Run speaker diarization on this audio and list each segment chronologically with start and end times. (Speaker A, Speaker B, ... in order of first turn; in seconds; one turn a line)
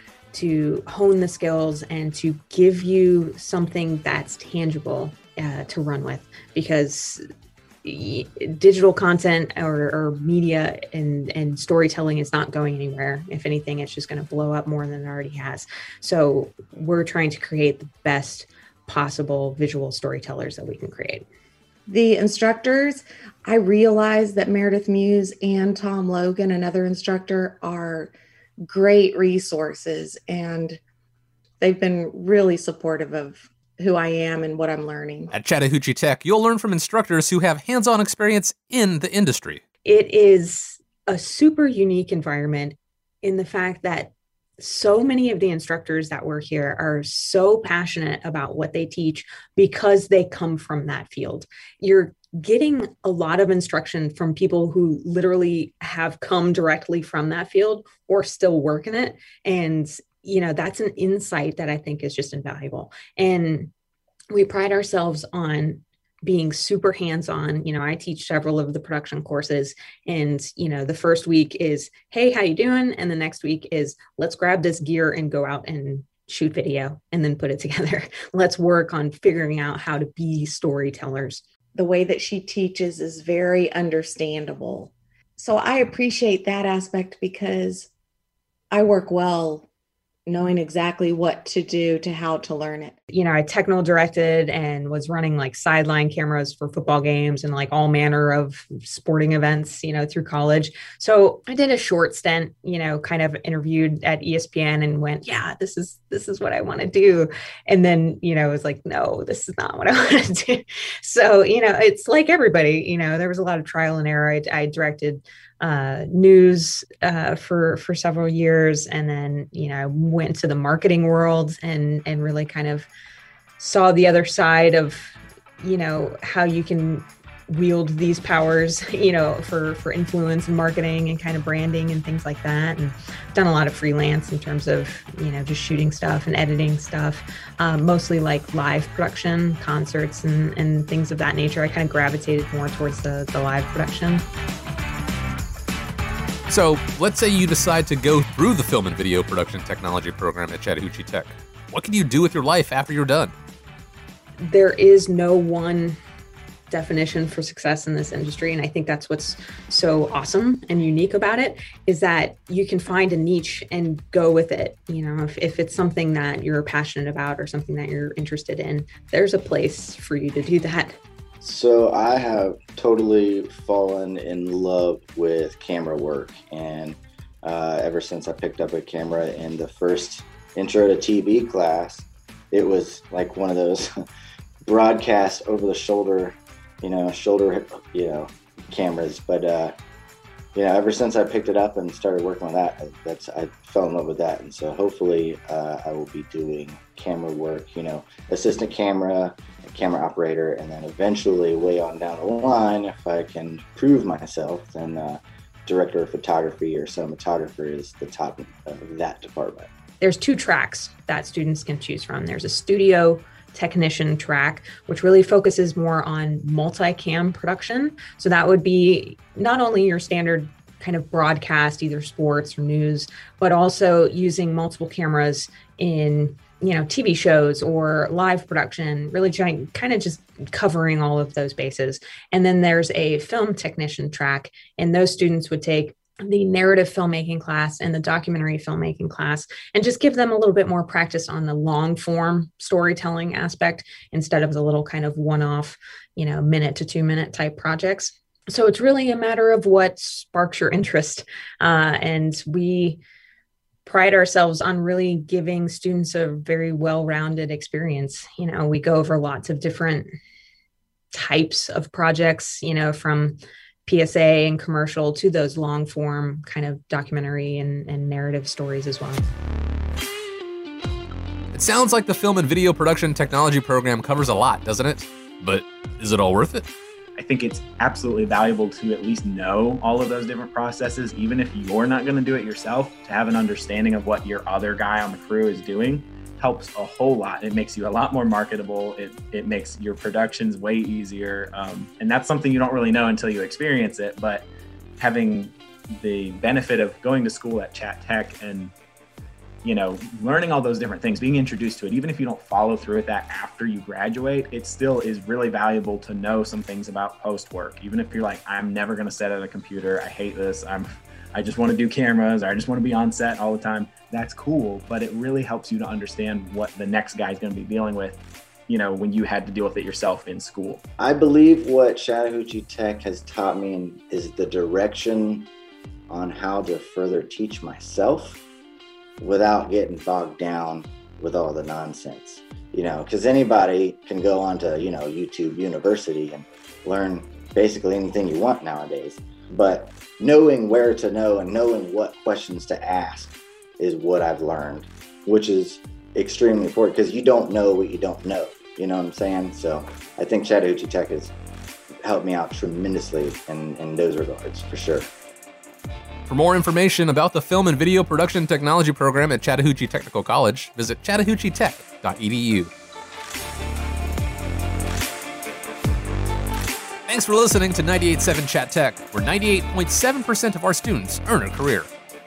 Speaker A: 0.3-7.2
Speaker A: 7.8-21.3
Speaker B: 21.9-28.1
Speaker B: 28.6-30.8
Speaker B: 31.6-35.3
Speaker C: 35.3-39.6
Speaker A: 39.8-63.7
Speaker A: 64.3-81.4
Speaker B: 81.8-87.9
Speaker B: 88.7-89.7
Speaker B: 90.3-93.0
Speaker A: 93.1-122.9
Speaker A: 123.6-144.2
Speaker C: 146.5-153.3
Speaker A: 154.4-156.0
Speaker A: 156.7-171.0
Speaker D: 171.4-184.0
Speaker D: 184.6-189.7
Speaker D: 190.5-209.7
Speaker A: 210.0-253.0
Speaker A: 253.8-260.1
Speaker A: 261.1-269.3
Speaker C: 271.5-276.6
Speaker E: 277.2-294.5
Speaker E: 295.0-298.7
Speaker E: 299.6-320.8
Speaker D: 321.0-325.5
Speaker D: 326.1-328.4
Speaker D: 329.2-351.3
Speaker D: 352.0-355.1
Speaker C: 356.3-362.7
Speaker C: 367.1-371.9